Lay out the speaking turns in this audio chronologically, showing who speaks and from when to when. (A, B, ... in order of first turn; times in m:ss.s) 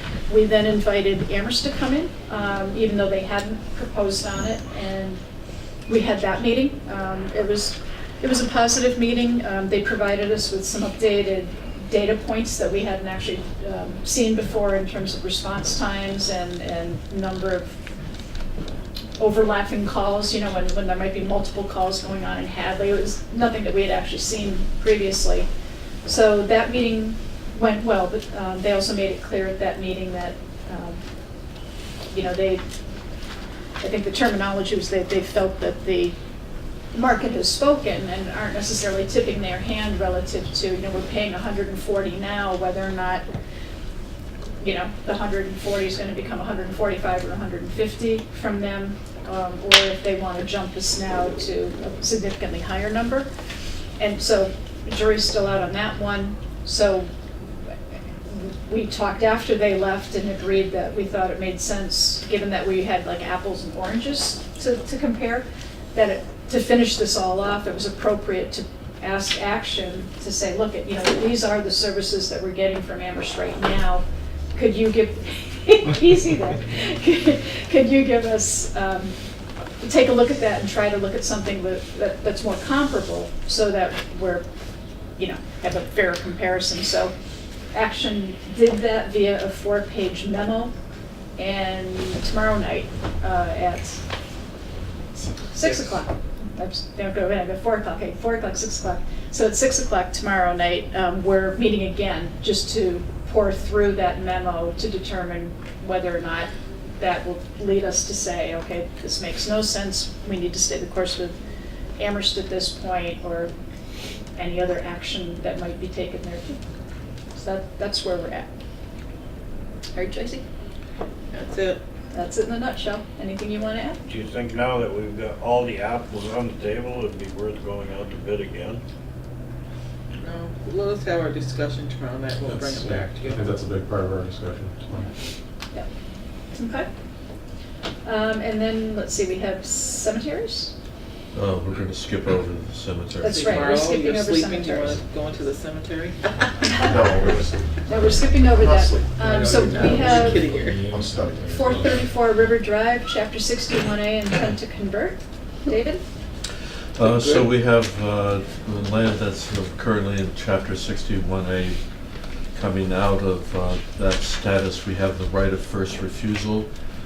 0:00.3-0:05.2 A
0:05.9-0:17.8 A
0:19.2-0:25.5 A
0:26.0-0:31.0 A
0:32.1-0:32.6 A
0:33.8-0:36.2 A
0:36.9-0:43.2 A
0:44.6-0:53.3 A
0:54.0-0:57.1 A
0:58.3-1:19.2 A
1:19.8-1:24.4 A
1:25.2-1:27.1 A
1:27.7-1:30.7 A
1:31.4-1:34.0 A
1:35.4-1:51.4 A
1:52.0-1:53.5 A
1:54.4-1:56.6 A
1:57.4-1:58.5 A
1:59.9-2:00.4 A
2:01.3-2:01.8 B
2:02.1-2:04.0 A
2:04.1-2:08.8 C
2:10.2-2:13.5 B
2:12.4-2:15.1 D
2:16.5-2:16.9 A
2:18.0-2:20.7 A
2:21.4-2:23.8 E
2:23.2-2:25.0 A
2:23.2-2:26.5 B
2:26.7-2:30.6 A
2:26.8-2:27.7 D
2:28.6-2:32.2 D
2:29.3-2:30.9 B
2:31.5-2:36.0 A
2:37.0-2:41.8 E
2:37.0-2:37.5 B
2:42.5-2:46.7 E